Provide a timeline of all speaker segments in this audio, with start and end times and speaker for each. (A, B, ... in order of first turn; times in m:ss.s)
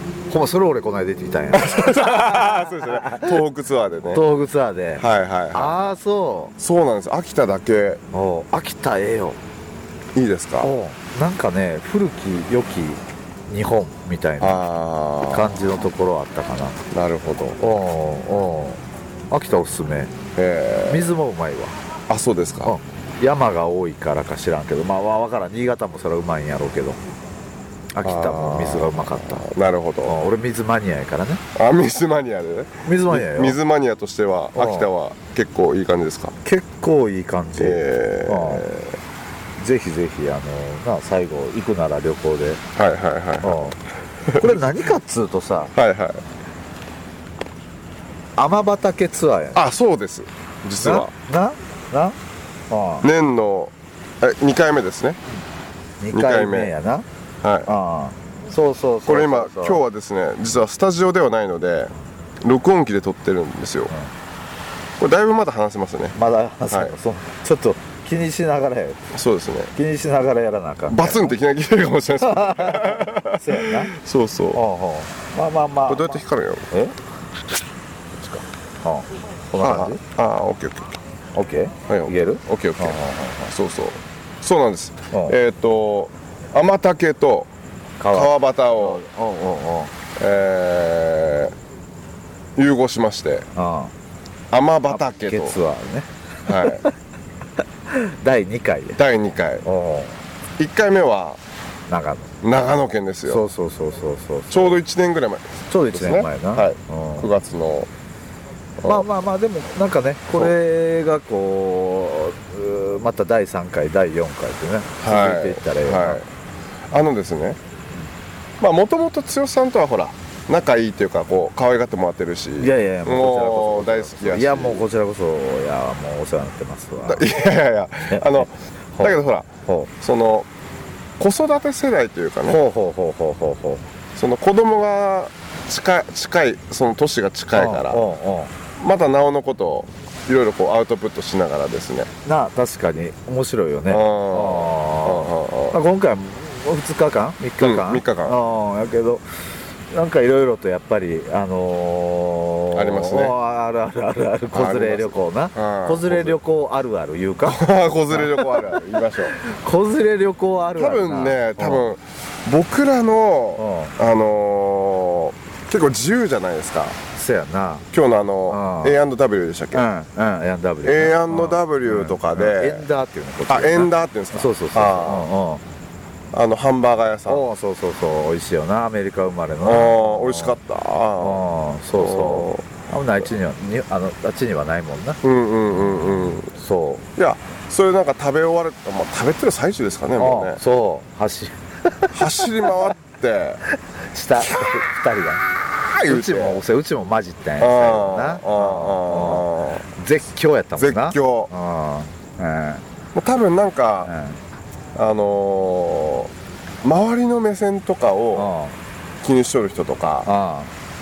0:00.3-0:03.4 A
0:01.5-0:04.2 B
0:04.1-0:06.5 A
0:05.0-0:05.9 B
0:06.6-0:08.0 B
0:08.1-0:09.4 A
0:10.2-0:10.7 B
0:10.6-0:14.7 A
0:14.4-0:15.6 B
0:15.3-0:16.8 A
0:16.9-0:17.6 B
0:17.6-0:20.1 A
0:20.4-0:21.1 B
0:20.9-0:21.7 A
0:22.1-0:22.8 B
0:22.6-0:27.0 A
0:27.9-0:29.5 A
0:28.0-0:30.2 B
0:30.0-0:31.4 A
0:31.6-0:36.4 B
0:32.8-0:33.6 A
0:34.6-0:34.9 A
0:36.4-0:38.7 A
0:37.6-0:39.0 B
0:39.6-0:42.6 A
0:42.8-0:43.6 B
0:43.4-0:43.8 A
0:44.3-0:44.6 B
0:44.4-0:45.7 A
0:45.8-0:46.2 B
0:48.4-0:49.6 A
0:49.6-0:51.1 B
0:50.8-0:52.2 A
0:52.7-0:53.1 A
0:53.0-0:55.2 B
0:56.0-0:57.1 A
0:56.1-0:56.7 B
0:57.4-0:57.7 B
0:57.7-0:59.8 A
0:59.0-1:03.9 B
1:05.0-1:06.2 B
1:06.2-1:09.0 A
1:06.7-1:07.0 B
1:09.1-1:09.7 B
1:09.8-1:11.3 A
1:10.9-1:14.6 B
1:12.2-1:13.9 A
1:14.5-1:17.0 A
1:15.9-1:16.7 B
1:18.2-1:20.0 A
1:19.6-1:21.0 B
1:21.4-1:23.5 A
1:21.9-1:27.5 B
1:28.0-1:29.9 A
1:28.1-1:29.0 B
1:30.2-1:31.5 B
1:32.6-1:33.5 B
1:33.6-1:33.9 A
1:34.5-1:35.6 B
1:34.9-1:36.9 A
1:36.5-1:36.8 B
1:37.9-1:39.0 A
1:39.0-1:39.6 B
1:39.6-1:40.2 A
1:40.6-1:41.4 B
1:41.9-1:42.3 A
1:42.4-1:43.4 B
1:43.3-1:44.8 A
1:44.5-1:47.9 B
1:45.7-1:47.3 A
1:48.8-1:56.2 A
1:55.0-1:56.3 B
1:56.9-1:57.6 B
1:58.6-2:04.8 B
2:02.6-2:07.3 A
2:07.1-2:09.5 B
2:08.1-2:09.9 A
2:10.0-2:10.5 B
2:11.2-2:12.6 B
2:12.5-2:13.8 A
2:14.2-2:18.0 B
2:17.5-2:18.5 A
2:18.8-2:22.1 B
2:22.2-2:29.2 A
2:23.9-2:25.8 B
2:27.6-2:28.4 B
2:29.9-2:38.8 A
2:32.7-2:33.4 B
2:34.5-2:36.4 B
2:37.4-2:39.4 B
2:39.3-2:41.8 A
2:40.8-2:47.0 B
2:43.6-2:44.0 A
2:47.2-2:47.9 A
2:47.9-2:49.9 B
2:48.5-2:49.0 A
2:49.7-2:55.6 A
2:50.8-2:52.9 B
2:53.5-2:55.3 B
2:56.3-2:57.5 B
2:57.3-3:00.6 A
2:59.6-3:01.4 B
3:01.2-3:05.2 A
3:02.0-3:02.8 B
3:05.2-3:06.5 B
3:05.7-3:07.1 A
3:07.2-3:10.6 B
3:10.2-3:12.8 A
3:12.1-3:13.6 B
3:14.1-3:15.4 A
3:14.4-3:14.8 B
3:15.8-3:16.6 B
3:16.0-3:22.8 A
3:17.6-3:19.8 B
3:20.8-3:21.5 B
3:23.2-3:24.1 B
3:24.1-3:24.4 A
3:25.0-3:26.3 B
3:26.8-3:28.5 B
3:28.3-3:28.8 A
3:29.2-3:30.3 B
3:30.3-3:30.7 A